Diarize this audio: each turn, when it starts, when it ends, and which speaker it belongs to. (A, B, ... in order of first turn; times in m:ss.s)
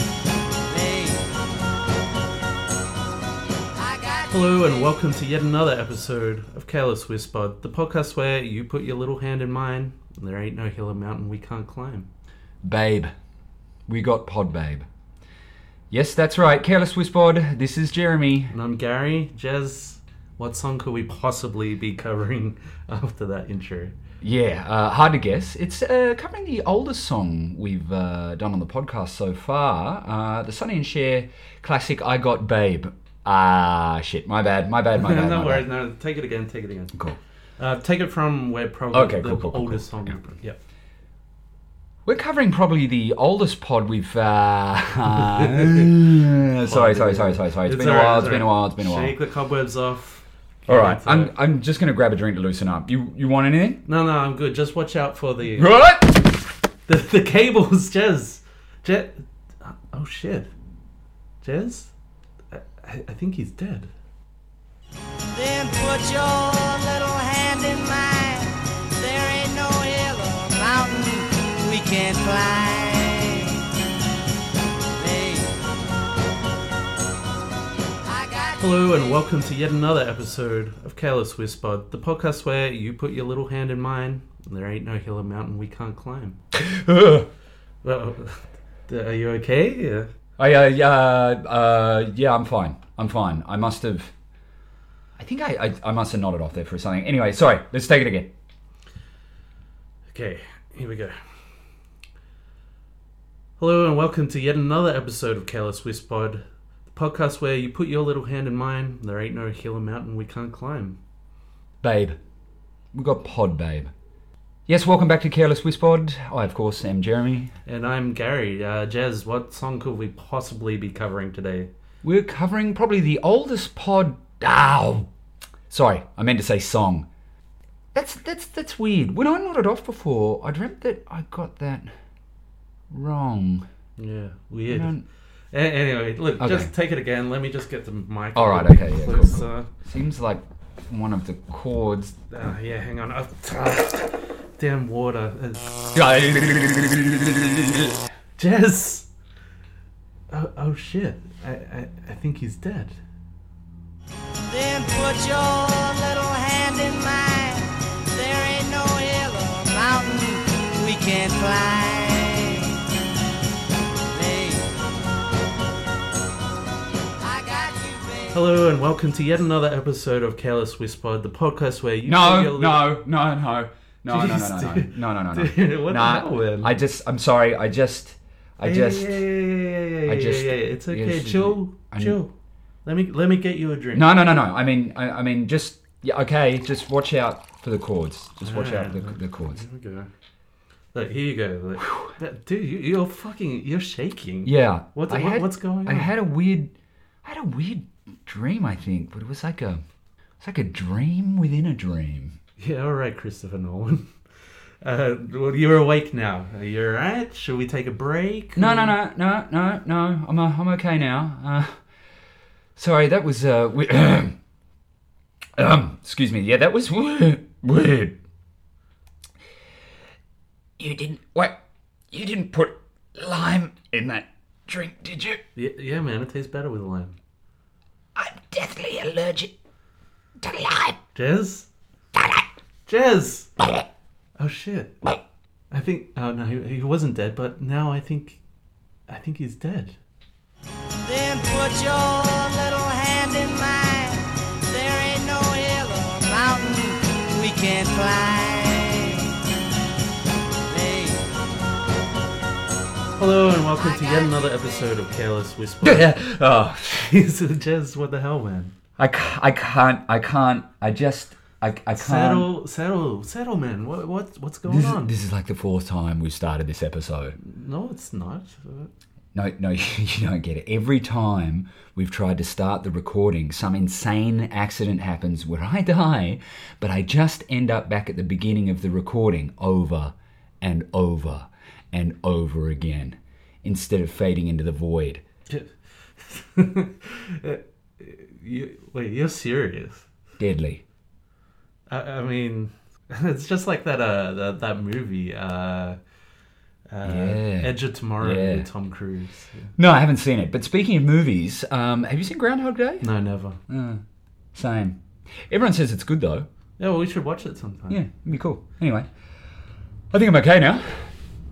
0:00.7-0:01.3 A
0:03.8-0:04.3 A
0:04.3-0:12.1 B
0:12.6-0:13.1 C
0:13.9-0:14.9 C
0:15.9-0:18.5 C
0:18.5-0:24.0 B
0:24.2-0:35.7 C
0:35.0-0:37.0 B
0:37.6-0:40.6 B
0:38.9-0:40.2 C
0:42.0-0:49.1 C
0:46.6-0:51.3 B
0:50.7-0:53.8 C
0:53.9-0:55.7 B
0:55.6-0:56.3 C
0:56.9-1:00.5 B
1:01.4-1:01.9 B
1:02.5-1:03.9 B
1:05.3-1:13.7 A
1:15.0-1:15.6 A
1:18.1-1:18.6 A
1:18.6-1:26.4 B
1:26.5-1:27.3 C
1:27.8-1:30.1 B
1:30.4-1:34.1 C
1:35.2-1:38.3 C
1:40.1-1:41.2 B
1:43.6-1:51.0 B
1:51.8-1:52.2 C
1:52.9-1:53.9 C
1:54.7-1:57.5 C
1:57.7-2:01.7 B
2:02.0-2:05.1 C
2:05.7-2:07.1 C
2:07.9-2:11.9 C
2:12.9-2:13.7 C
2:14.0-2:14.9 B
2:14.7-2:15.0 C
2:15.5-2:19.7 B
2:16.4-2:16.7 C
2:18.4-2:22.2 C
2:22.3-2:26.0 B
2:26.0-2:28.0 C
2:28.4-2:29.1 B
2:30.3-2:33.0 B
2:34.4-2:42.8 A
2:44.1-2:44.7 A
2:47.2-2:48.4 A
2:48.3-2:52.9 B
2:52.0-2:59.2 C
2:54.1-2:56.7 B
2:58.6-3:02.3 B
3:00.1-3:02.2 C
3:02.8-3:04.1 B
3:03.9-3:09.6 C
3:08.4-3:10.1 B
3:10.9-3:16.1 B
3:11.8-3:12.1 C
3:14.4-3:16.7 C
3:17.2-3:19.8 C
3:20.4-3:22.4 C
3:22.6-3:24.1 B
3:24.8-3:29.0 B
3:28.6-3:31.8 C
3:32.8-3:34.4 C
3:35.6-3:38.2 C
3:40.8-3:41.6 C
3:42.1-3:45.4 C
3:45.6-3:47.2 B
3:48.2-3:49.5 C
3:50.4-3:51.0 C
3:51.2-3:51.7 B
3:52.2-3:52.4 C
3:52.9-3:53.5 B
3:54.4-3:55.2 B
3:55.7-3:58.4 B
3:59.1-4:00.0 B
4:01.0-4:09.4 A
4:10.7-4:11.3 A
4:13.2-4:16.1 B
4:13.8-4:14.6 A
4:15.8-4:17.0 C
4:16.9-4:18.7 B
4:19.0-4:22.5 C
4:22.0-4:25.1 B
4:24.6-4:27.4 C
4:27.4-4:28.9 B
4:29.3-4:45.2 C
4:45.5-4:50.1 B
4:50.4-4:50.8 C
4:51.9-4:56.0 B
4:56.9-4:59.7 B
4:57.0-4:58.7 C
4:59.8-5:03.1 C
5:03.0-5:03.6 B
5:03.7-5:04.0 C
5:04.5-5:06.5 C
5:06.8-5:08.0 B
5:07.9-5:09.1 C
5:10.1-5:11.1 C